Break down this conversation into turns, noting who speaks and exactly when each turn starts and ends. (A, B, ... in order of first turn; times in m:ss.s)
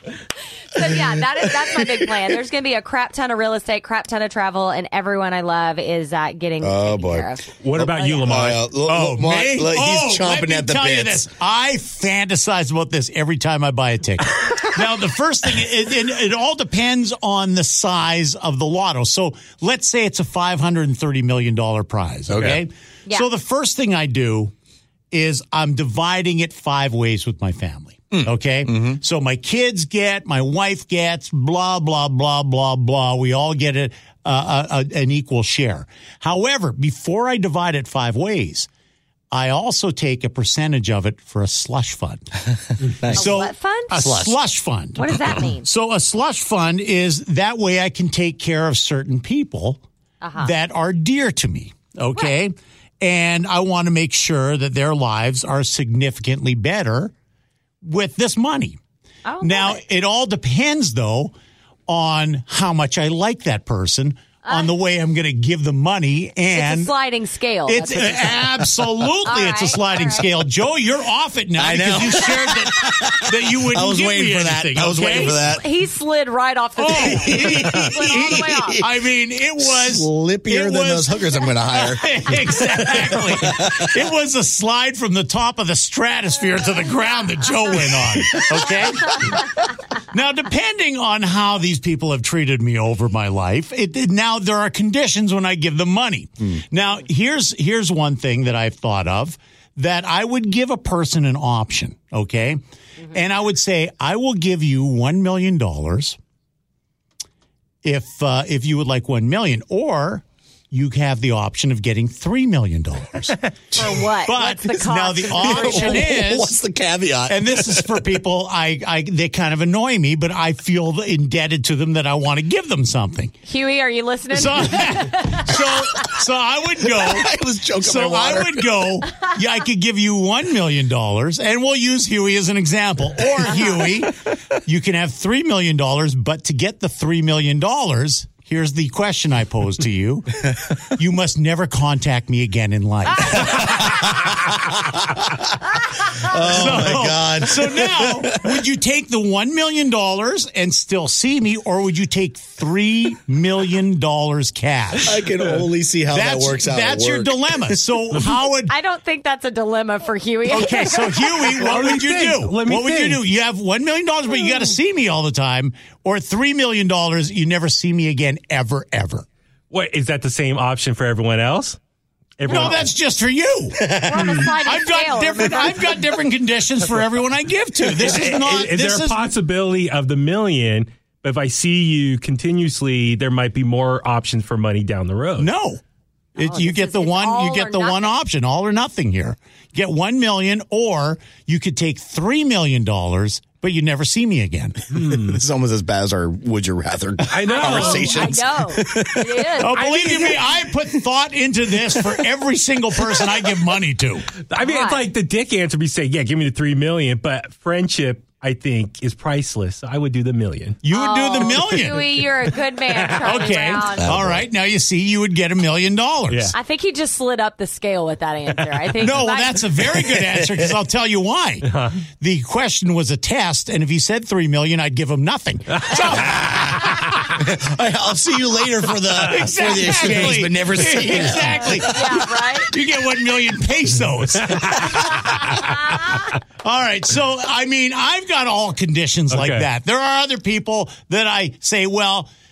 0:00.7-0:08.4 A
0:00.8-0:02.2 B
0:06.6-0:11.3 B
0:07.6-0:08.6 C
0:08.7-0:24.5 D
0:22.3-0:22.6 B
0:25.1-0:38.7 D
0:28.1-0:29.0 B
0:39.3-0:42.2 D
0:43.0-0:43.3 B
0:43.1-0:49.8 D
0:43.2-0:44.2 A
0:44.0-0:44.4 B
0:45.0-0:45.7 A
0:50.2-0:50.5 A
0:50.4-0:57.1 D
0:57.8-0:58.8 D
0:59.2-0:59.8 A
0:59.4-1:01.3 D
1:01.9-1:06.9 D
1:04.4-1:04.7 A
1:06.5-1:08.5 A
1:07.7-1:15.4 D
1:09.2-1:10.3 A
1:11.6-1:15.7 B
1:15.0-1:18.8 A
1:16.8-1:42.6 D
1:17.1-1:18.9 B
1:19.6-1:23.9 B
1:28.3-1:28.7 B
1:43.1-1:46.2 D
1:47.8-1:56.6 D
1:53.7-1:56.1 A
1:55.3-1:58.2 B
1:57.3-2:03.3 D
2:03.4-2:05.7 A
2:04.3-2:20.4 D
2:06.9-2:08.8 B
2:13.5-2:13.8 A
2:20.9-2:23.8 D
2:23.4-2:24.3 B
2:26.2-2:28.6 B
2:26.4-2:35.2 D
2:35.0-2:37.8 B
2:36.1-2:38.7 D
2:38.6-2:41.7 A
2:40.5-2:49.3 D
2:41.6-2:43.2 C
2:49.7-2:51.8 C
2:52.4-2:52.9 C
2:52.5-2:59.2 D
2:54.0-2:56.0 A
2:58.0-3:05.5 C
3:05.4-3:05.8 D
3:06.4-3:08.1 A
3:06.4-3:14.8 D
3:14.9-3:15.4 C
3:14.9-3:19.7 B
3:17.3-3:18.3 C
3:17.5-3:19.8 A
3:19.6-3:24.3 D
3:19.7-3:20.4 C
3:24.5-3:30.8 C
3:24.6-3:25.1 A
3:30.8-3:32.3 D
3:30.9-3:34.3 A
3:33.2-3:36.6 D
3:34.0-3:34.5 B
3:36.3-3:36.6 C
3:36.5-3:39.9 A
3:39.0-3:47.1 D
3:40.0-3:40.6 B
3:41.7-3:42.0 C
3:46.2-3:51.9 B
3:49.2-4:02.3 D
3:51.4-3:52.7 A
3:59.3-3:59.7 C